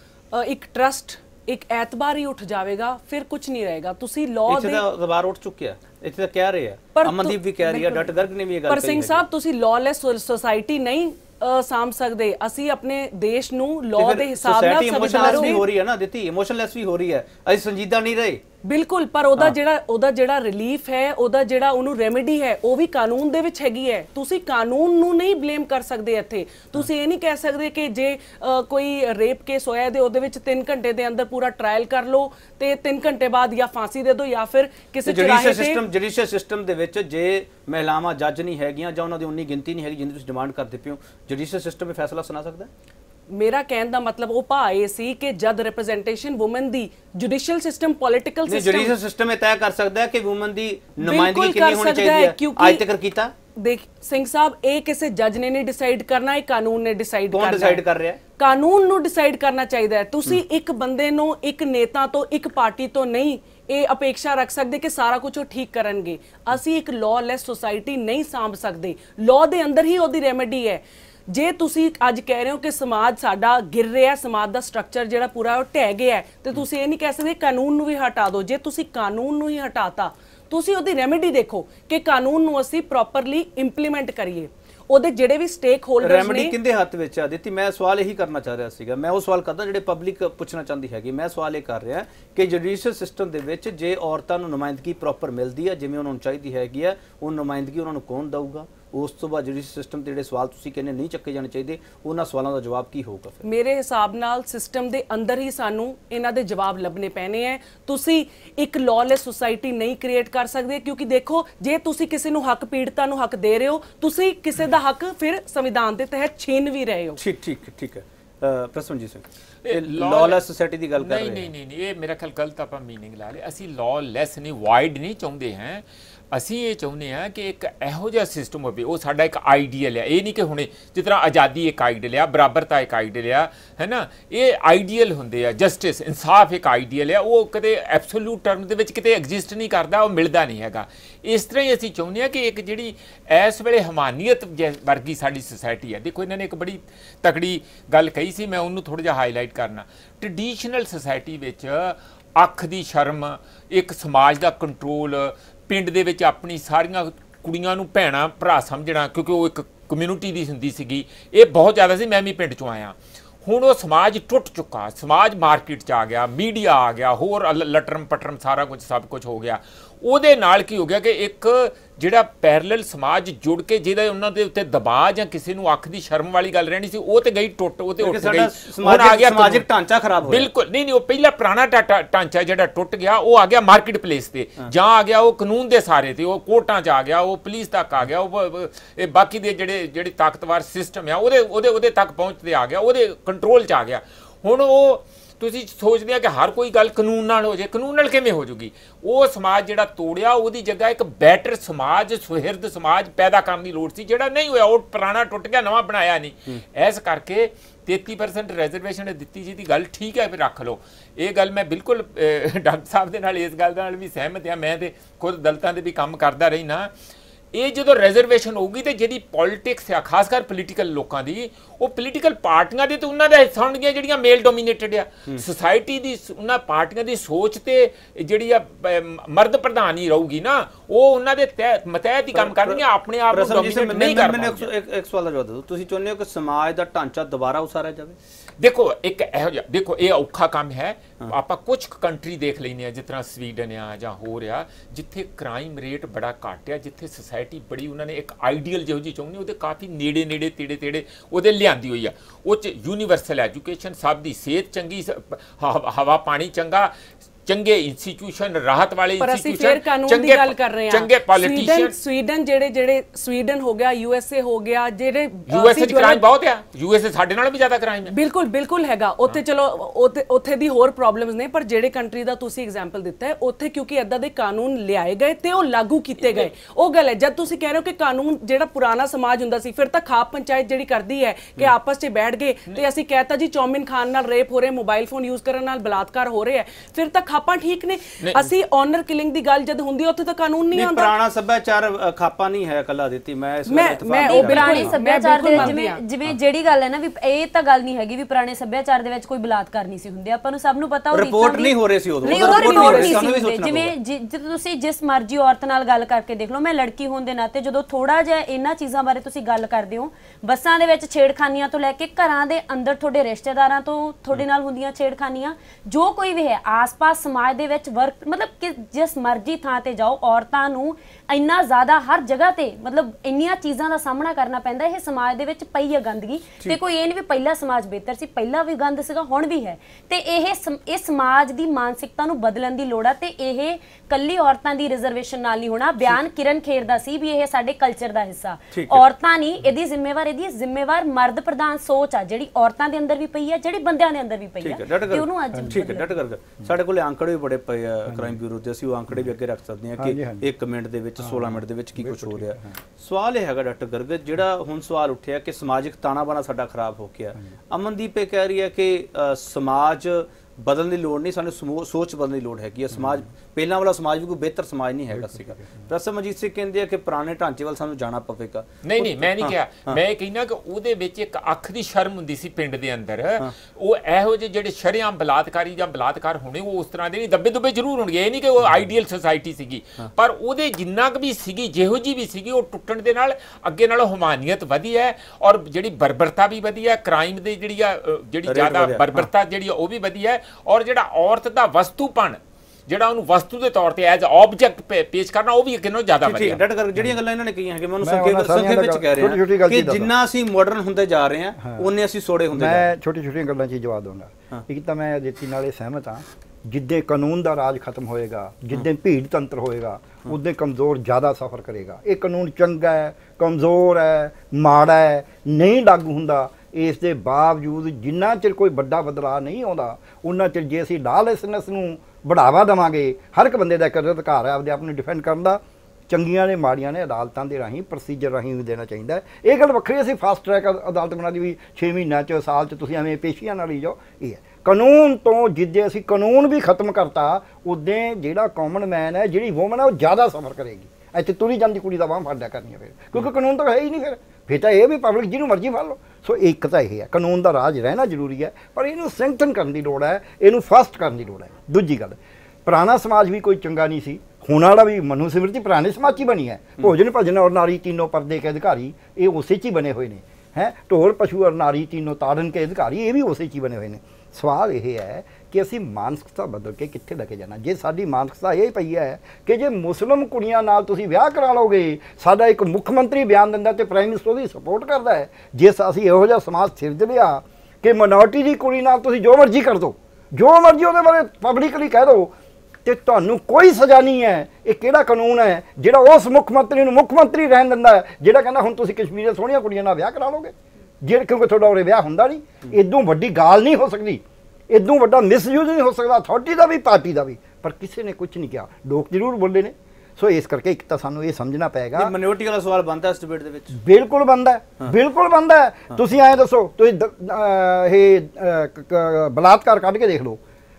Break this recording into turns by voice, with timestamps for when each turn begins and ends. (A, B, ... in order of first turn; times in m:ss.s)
0:00.3-0:04.9 A
0:04.5-0:09.2 B
0:06.9-0:08.1 A
0:08.6-0:15.7 A
0:13.9-0:18.4 B
0:18.6-0:35.8 A
0:35.0-0:42.7 B
0:43.3-0:48.9 A
0:48.5-0:53.3 B
0:51.0-0:52.9 A
0:53.6-0:57.9 A
0:57.3-0:58.2 B
0:58.4-1:26.6 A
1:26.0-1:43.4 B
1:43.4-1:57.2 A
1:57.2-2:01.5 B
1:59.6-2:00.4 C
2:01.0-2:59.7 C
2:58.0-3:00.5 B
3:00.2-3:36.9 C
3:37.5-3:54.7 C
3:52.3-3:58.2 B
3:58.6-4:16.9 C
4:17.4-4:22.0 C
4:19.2-4:26.2 A
4:25.5-4:28.1 C
4:28.1-4:51.1 A
4:36.2-4:36.5 C
4:48.2-4:48.5 C
4:50.7-4:55.0 B
4:53.7-4:56.0 A
4:54.2-5:46.2 D
4:55.5-4:55.8 B
5:01.1-5:03.9 B
5:02.2-5:03.4 A
5:38.7-5:39.0 B
5:44.6-6:10.0 B
5:48.1-5:48.4 E
5:50.0-5:50.5 E
5:51.2-5:52.8 E
6:08.8-6:36.6 C
6:28.5-6:29.3 B
6:36.2-6:42.9 B
6:38.0-6:40.1 E
6:41.6-6:41.9 E
6:42.5-8:02.3 E
8:02.8-8:22.1 E
8:22.0-8:23.8 B
8:23.7-8:30.4 E